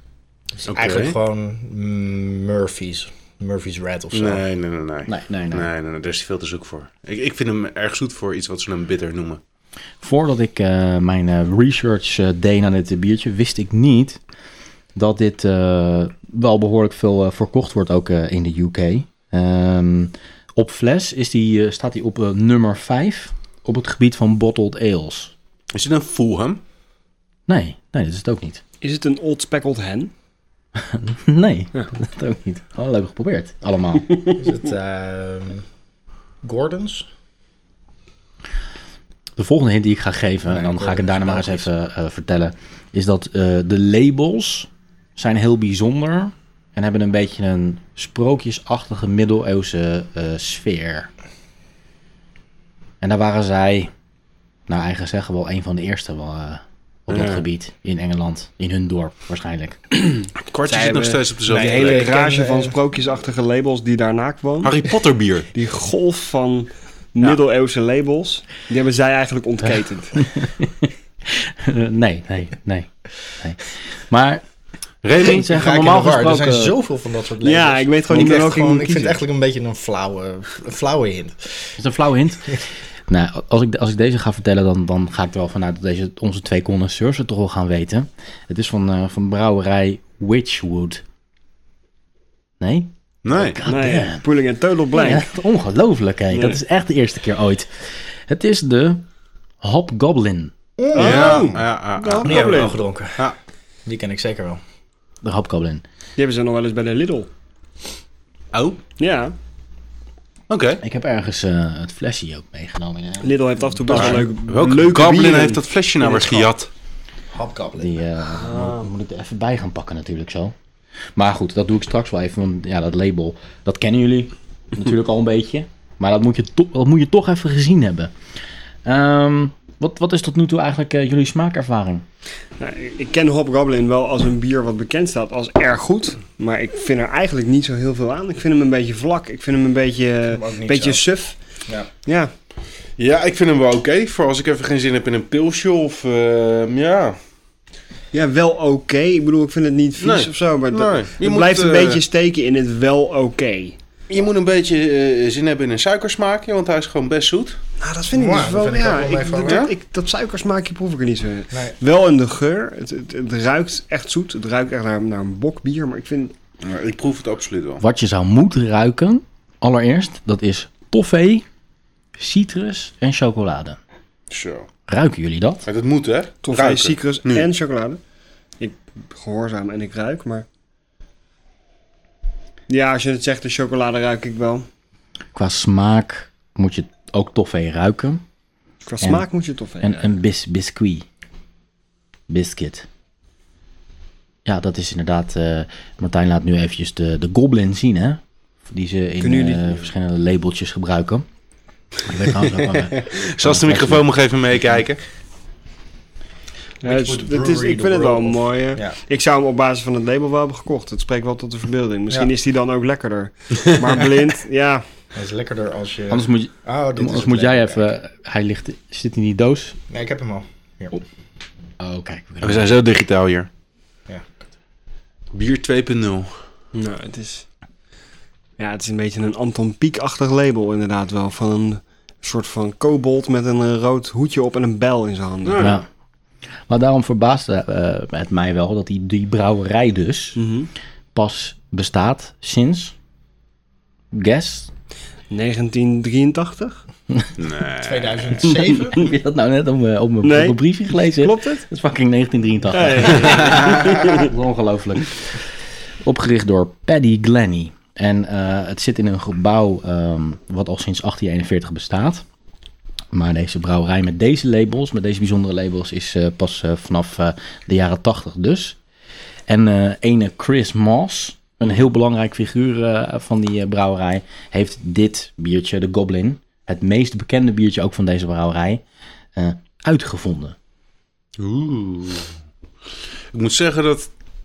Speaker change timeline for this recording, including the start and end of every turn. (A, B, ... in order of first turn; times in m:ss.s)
0:00.6-0:04.4 A
0:00.7-0:01.2 B
0:04.1-0:09.4 B
0:05.1-0:05.7 C
0:10.0-0:14.2 C
0:15.0-0:25.3 C
0:25.7-0:26.6 B
0:27.5-0:28.6 C
0:28.8-0:30.1 D
0:30.8-0:34.2 C
0:34.4-0:35.6 A
0:36.4-0:37.1 A
0:39.4-0:51.1 C
0:40.5-0:41.7 A
0:53.0-0:53.9 C
0:54.7-0:59.8 C
0:57.1-0:57.4 B
1:00.2-1:04.9 D
1:00.5-1:02.2 B
1:01.5-1:02.8 A
1:04.6-1:05.5 B
1:05.5-1:10.3 D
1:10.3-1:14.4 C
1:15.0-1:15.4 B
1:15.1-1:16.8 C
1:15.3-1:21.8 A
1:17.4-1:19.2 D
1:21.8-1:31.0 C
1:32.6-1:34.2 C
1:33.2-1:33.6 B
1:33.7-1:35.3 D
1:35.0-1:39.0 C
1:36.3-1:36.6 D
1:39.6-1:40.5 C
1:40.8-1:41.5 A
1:40.9-1:42.8 D
1:41.0-1:43.4 B
1:42.2-1:43.3 A
1:43.8-1:44.6 A
1:45.2-1:45.8 C
1:46.2-1:47.3 D
1:48.5-1:48.8 B
1:49.0-1:49.3 D
1:50.5-1:50.8 B
1:50.8-1:54.2 C
1:53.2-1:56.5 D
1:53.9-1:56.7 B
1:57.3-1:58.0 A
1:57.8-2:00.5 C
2:01.2-2:08.1 C
2:08.8-2:12.0 C
2:12.6-2:21.4 D
2:20.3-2:21.0 A
2:22.1-2:22.3 D
2:23.0-2:27.2 B
2:28.1-2:33.8 D
2:30.0-2:32.0 B
2:34.1-2:37.6 B
2:37.8-2:46.3 D
2:38.1-2:39.7 A
2:39.4-2:39.7 B
2:46.6-2:47.8 B
2:47.8-2:51.4 C
2:52.2-2:53.8 C
2:54.3-2:54.7 B
2:54.9-2:55.6 C
2:55.6-2:57.5 B
2:56.4-2:58.0 D
2:58.6-3:00.5 D
3:02.7-3:04.7 D
3:05.3-3:08.2 C
3:08.8-3:10.1 D
3:09.8-3:11.1 C
3:12.3-3:12.9 C
3:14.4-3:21.3 C
3:19.2-3:19.8 D
3:22.0-3:24.1 C
3:22.4-3:25.0 B
3:26.8-3:34.8 D
3:26.8-3:29.0 A
3:35.2-3:37.9 A
3:36.1-3:39.8 C
3:39.9-3:41.0 A
3:41.8-3:42.7 C
3:42.4-3:43.5 B
3:44.1-3:44.5 A
3:45.3-3:46.4 B
3:46.7-3:47.4 D
3:48.6-3:55.8 D
3:55.4-3:55.8 B
3:55.6-3:55.8 C
3:56.7-4:00.4 C
4:00.4-4:00.7 D
4:01.1-4:03.0 C
4:04.1-4:04.7 C
4:05.3-4:06.8 D
4:07.4-4:08.6 B
4:07.8-4:09.1 A
4:08.8-4:15.4 C
4:10.2-4:11.7 D
4:12.7-4:14.2 D
4:13.3-4:13.6 B
4:16.0-4:22.2 C
4:23.1-4:28.8 C
4:29.5-4:38.8 C
4:39.4-4:40.6 C
4:41.4-4:42.3 B
4:43.3-4:44.1 B